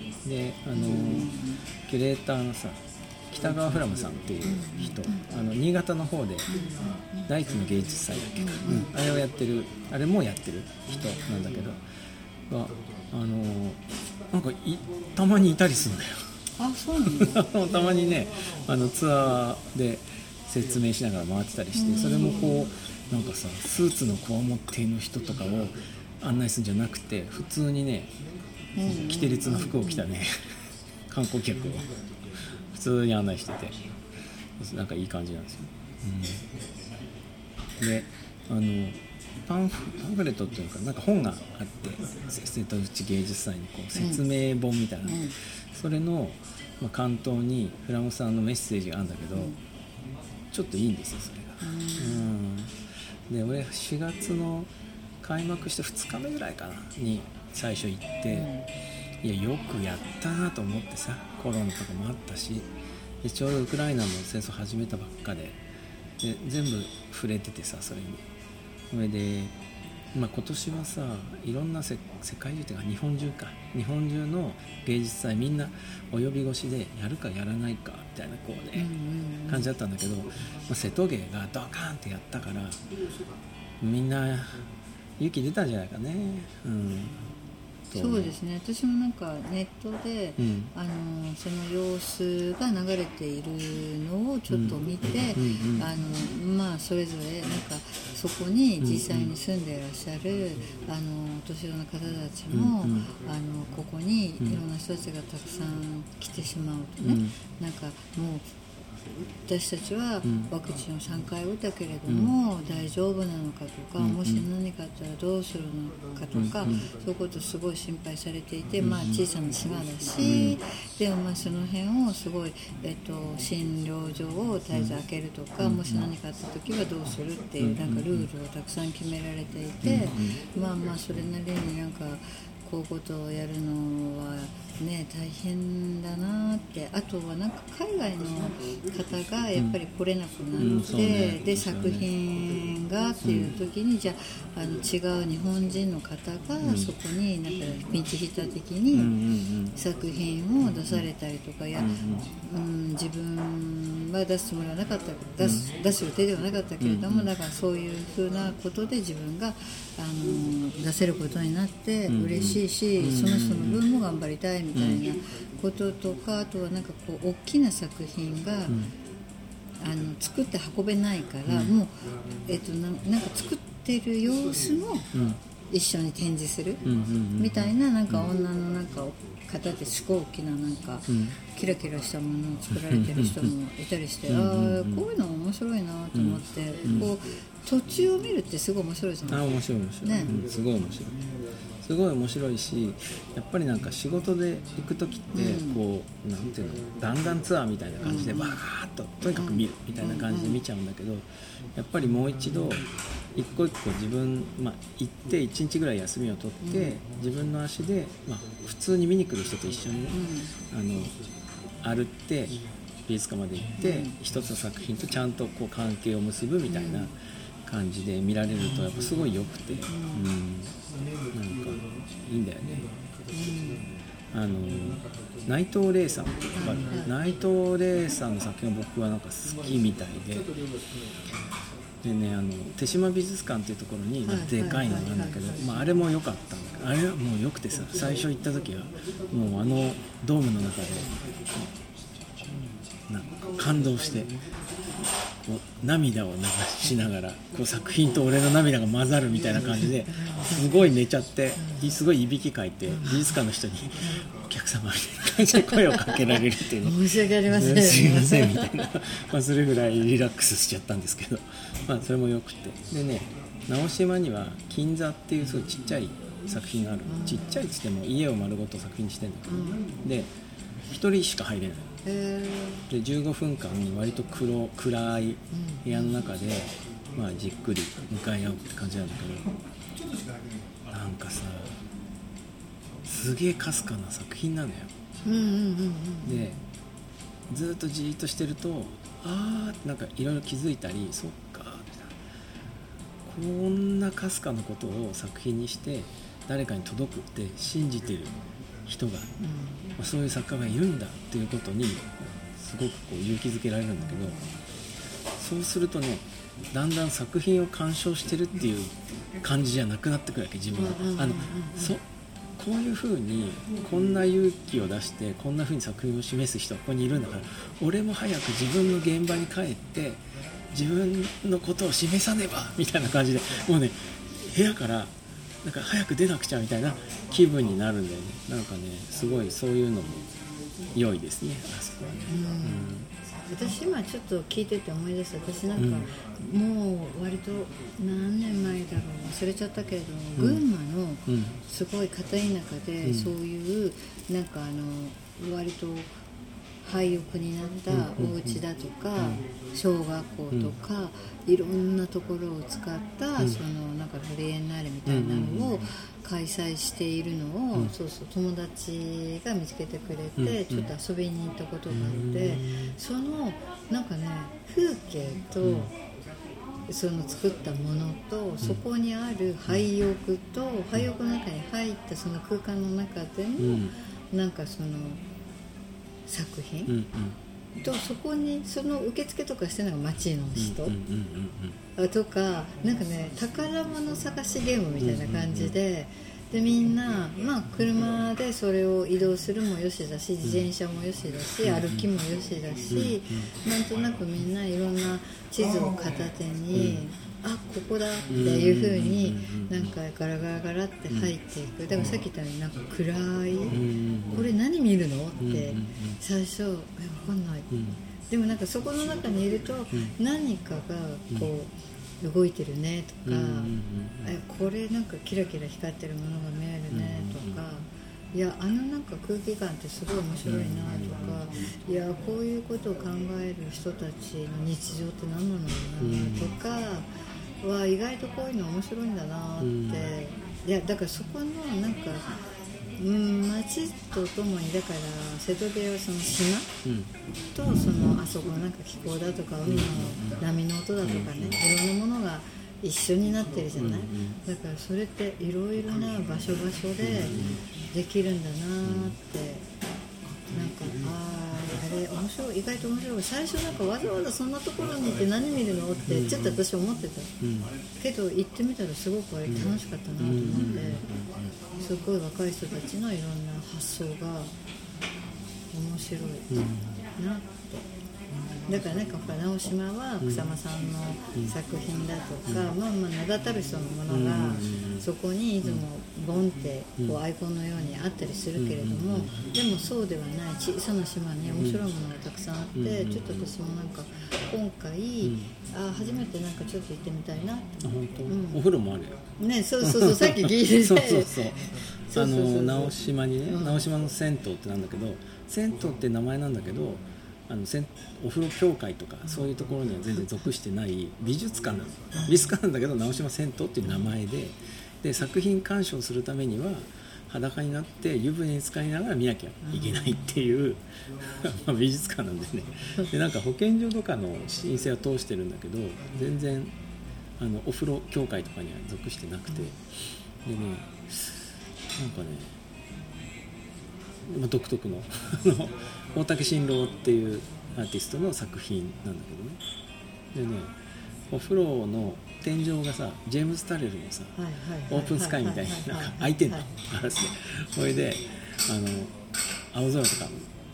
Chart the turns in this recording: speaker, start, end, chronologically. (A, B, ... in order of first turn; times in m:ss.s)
0:00.2-0:01.3 A
0:00.7-0:01.6 B
0:01.8-0:06.5 A
0:04.4-0:05.3 B
0:06.5-0:07.3 B
0:07.2-0:11.8 A
0:08.4-0:08.9 B
0:12.5-0:13.8 A
0:14.3-0:16.2 A
0:16.6-0:17.5 B
0:17.2-0:28.1 A
0:21.8-0:22.6 B
0:28.8-0:30.0 B
0:28.8-0:30.3 A
0:31.1-0:31.9 A
0:32.7-0:33.8 A
0:34.6-0:36.4 A
0:37.8-0:49.5 A
0:43.9-0:44.2 B
0:45.0-0:45.3 B
0:49.3-0:49.6 B
0:50.5-0:52.7 A
0:51.6-0:52.3 B
0:53.3-0:54.7 A
0:55.2-0:58.5 A
0:58.3-0:58.6 B
0:59.2-1:02.7 A
1:03.2-1:05.6 A
1:06.2-1:08.2 A
1:08.9-1:09.5 A
1:10.1-1:18.9 A
1:18.7-1:19.7 B
1:19.5-1:22.8 A
1:23.8-1:24.6 A
1:25.2-1:27.2 A
1:27.9-1:28.4 A
1:27.9-1:48.5 B
1:30.4-1:30.7 A
1:34.5-1:34.8 A
1:35.3-1:35.9 A
1:38.8-1:39.3 A
1:42.5-1:43.1 A
1:47.0-1:47.3 A
1:49.4-2:29.1 B
1:50.2-1:50.5 A
1:52.1-1:52.3 A
1:54.0-1:54.5 A
1:56.3-1:56.8 A
1:58.8-1:59.2 A
2:00.2-2:00.6 A
2:05.6-2:06.1 A
2:07.6-2:08.3 A
2:09.8-2:10.4 A
2:20.6-2:22.1 A
2:23.2-2:23.5 A
2:26.6-2:26.9 A
2:28.9-2:29.7 A
2:29.7-2:48.8 B
2:30.7-2:31.1 A
2:31.8-2:32.3 A
2:35.4-2:35.6 A
2:36.8-2:37.3 A
2:42.1-2:43.8 A
2:44.7-2:45.0 A
2:49.8-2:55.1 B
2:51.5-2:51.7 A
2:55.1-2:55.4 A
2:55.7-2:56.8 B
2:56.8-2:58.3 A
2:57.4-3:09.5 B
3:01.1-3:01.4 A
3:02.7-3:03.5 A
3:04.3-3:05.0 A
3:06.1-3:07.1 A
3:09.3-3:11.1 A
3:10.0-3:10.3 B
3:11.8-3:30.2 A
3:15.3-3:15.8 B
3:18.0-3:18.6 B
3:19.3-3:20.6 B
3:26.6-3:27.0 B
3:30.1-3:30.5 B
3:30.7-3:31.2 A
3:31.8-3:40.7 A
3:33.8-3:34.2 B
3:36.7-3:37.1 B
3:39.9-3:40.3 B
3:41.3-3:42.8 A
3:43.3-3:43.9 B
3:44.3-3:50.5 A
3:46.5-3:47.1 B
3:52.0-4:01.7 A
3:54.2-3:55.7 B
4:03.1-4:04.3 A
4:05.4-4:30.3 A
4:10.1-4:10.6 B
4:11.6-4:11.9 B
4:12.9-4:13.4 B
4:16.8-4:18.9 B
4:27.0-4:27.7 B
4:29.4-4:29.8 B
4:30.9-4:31.9 A
4:32.0-4:32.8 B
4:32.9-4:39.5 A
4:35.5-4:36.1 B
4:40.9-4:41.7 A
4:43.0-4:44.9 A
4:45.2-4:46.6 B
4:46.2-4:46.6 A
4:47.5-4:52.1 A
4:53.2-4:59.3 A
4:59.4-4:59.9 B
5:00.0-5:04.4 A
5:04.0-5:04.6 B
5:05.4-5:12.0 A
5:10.7-5:11.9 B
5:12.6-5:30.3 A
5:30.9-5:33.1 A
5:32.3-5:33.0 B
5:33.5-5:46.1 B
5:35.8-5:36.1 A
5:40.4-5:40.6 A
5:41.3-5:41.6 A
5:43.0-5:43.3 A
5:46.8-6:05.9 B
5:47.9-5:48.6 A
5:49.2-5:49.4 A
5:55.0-5:55.9 A
6:00.4-6:00.9 A
6:01.9-6:02.9 A
6:05.6-6:05.9 A
6:06.9-6:15.2 B
6:13.6-6:13.9 A
6:16.3-6:17.0 B
6:16.9-6:17.4 A
6:17.8-6:21.0 B
6:20.6-6:21.8 A
6:22.0-6:43.8 B
6:25.0-6:25.8 A
6:31.6-6:32.0 A
6:32.9-6:33.4 A
6:36.7-6:37.0 A
6:38.3-6:39.9 A
6:43.7-6:44.5 A
6:44.3-6:47.7 B
6:45.4-6:46.2 A
6:47.7-6:48.0 A
6:48.3-7:07.1 B
6:53.2-6:54.3 A
6:56.9-6:57.6 A
7:00.4-7:01.4 A
7:06.0-7:06.5 A
7:07.6-7:12.3 B
7:09.6-7:10.1 A
7:13.0-7:16.7 B
7:16.8-7:17.1 A
7:17.5-7:27.4 B
7:19.6-7:20.4 A
7:21.0-7:21.6 A
7:23.8-7:24.4 A
7:27.0-7:27.6 A
7:27.9-7:29.7 B
7:28.8-7:29.2 A
7:30.5-7:37.3 B
7:36.0-7:36.6 A
7:37.4-7:37.7 A
7:38.0-7:41.0 B
7:39.5-7:41.5 A
7:41.8-7:44.5 B
7:45.7-7:46.6 B
7:46.5-7:47.0 A
7:47.2-7:47.8 B
7:48.7-8:08.6 B
7:52.5-7:52.7 A
7:54.1-7:55.0 A
7:58.6-7:59.3 A
8:01.6-8:01.8 A
8:02.7-8:03.3 A
8:05.2-8:05.5 A
8:07.8-8:09.2 A
8:09.4-8:11.4 B
8:09.8-8:36.7 A
8:12.1-8:13.8 B
8:29.7-8:30.2 B
8:37.4-8:39.8 A
8:40.4-8:41.4 A
8:42.0-8:42.6 A
8:44.3-8:49.6 A
8:50.3-8:50.7 A
8:51.3-8:54.4 A
8:54.4-8:56.7 B
8:54.9-8:59.1 A
8:59.7-9:00.5 A